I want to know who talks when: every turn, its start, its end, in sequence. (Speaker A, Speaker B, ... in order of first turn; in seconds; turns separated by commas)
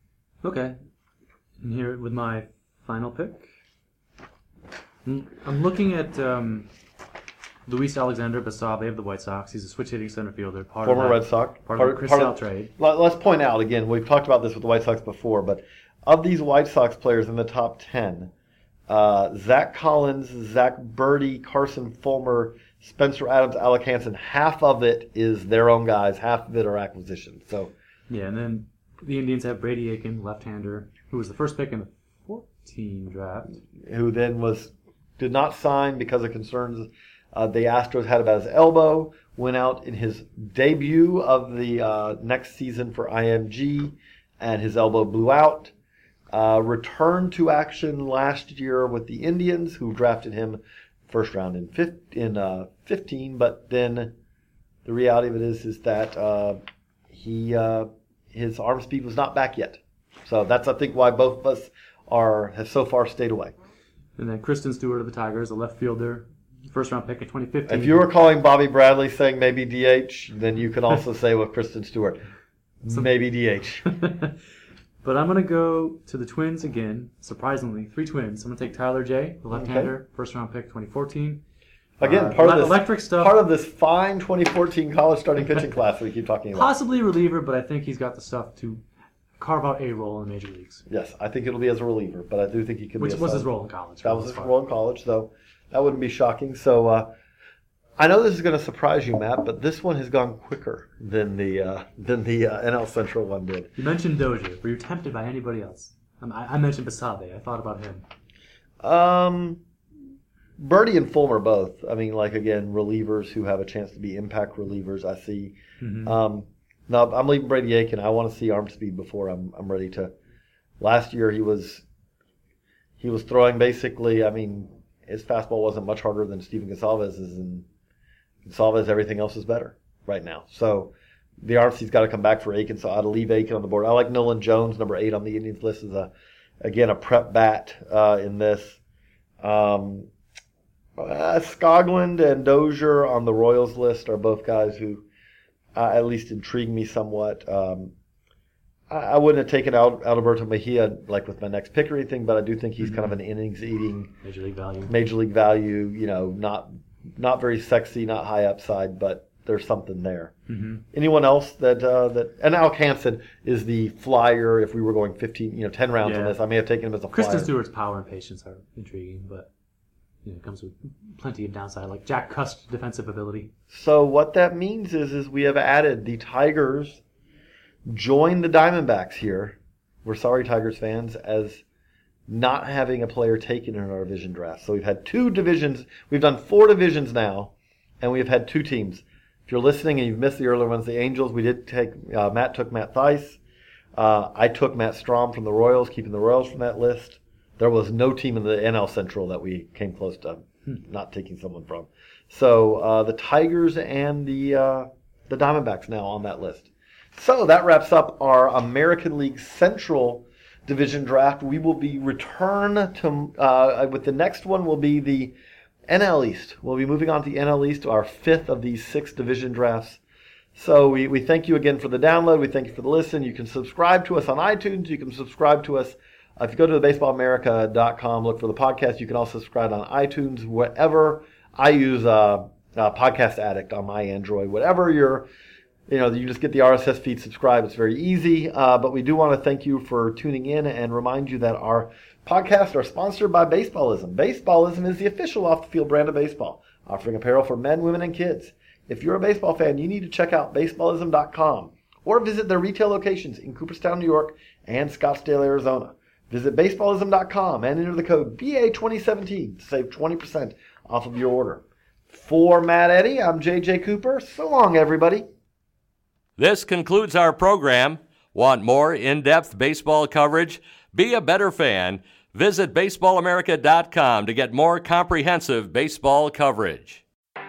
Speaker A: 0.4-0.8, Speaker A: 1.6-3.5, Speaker A: 5.0-6.7, Speaker A: 7.7-12.7, Speaker B: 10.8-18.3, Speaker B: 18.9-27.7, Speaker A: 28.1-33.6, Speaker B: 33.9-45.7, Speaker B: 46.3-54.1, Speaker B: 54.9-56.6, Speaker B: 57.1-63.5, Speaker A: 64.2-68.1, Speaker B: 67.7-72.2, Speaker B: 72.8-73.9, Speaker A: 73.8-74.3, Speaker A: 75.0-81.4, Speaker B: 79.5-79.9, Speaker B: 82.0-86.8, Speaker A: 82.0-83.4, Speaker A: 86.5-88.8, Speaker A: 89.4-90.8, Speaker B: 90.9-97.1, Speaker A: 93.0-94.5, Speaker B: 98.0-103.7, Speaker A: 103.8-108.0, Speaker B: 108.8-109.6, Speaker B: 110.6-120.1, Speaker A: 115.8-116.2, Speaker B: 120.8-121.8, Speaker B: 123.0-127.7, Speaker B: 128.4-136.1, Speaker B: 136.6-138.8, Speaker B: 139.4-140.1, Speaker B: 141.0-145.0, Speaker B: 145.8-147.9, Speaker B: 148.9-154.2, Speaker A: 152.8-153.2, Speaker A: 154.2-154.9, Speaker B: 154.9-160.3, Speaker A: 160.5-160.8, Speaker B: 160.9-167.5, Speaker A: 166.0-166.4, Speaker A: 167.1-169.5, Speaker A: 170.2-173.5, Speaker B: 173.7-177.0, Speaker B: 177.9-181.6, Speaker B: 182.3-193.4, Speaker B: 194.0-215.3, Speaker B: 215.9-220.0, Speaker B: 220.6-235.3, Speaker B: 235.9-265.2, Speaker C: 266.4-277.0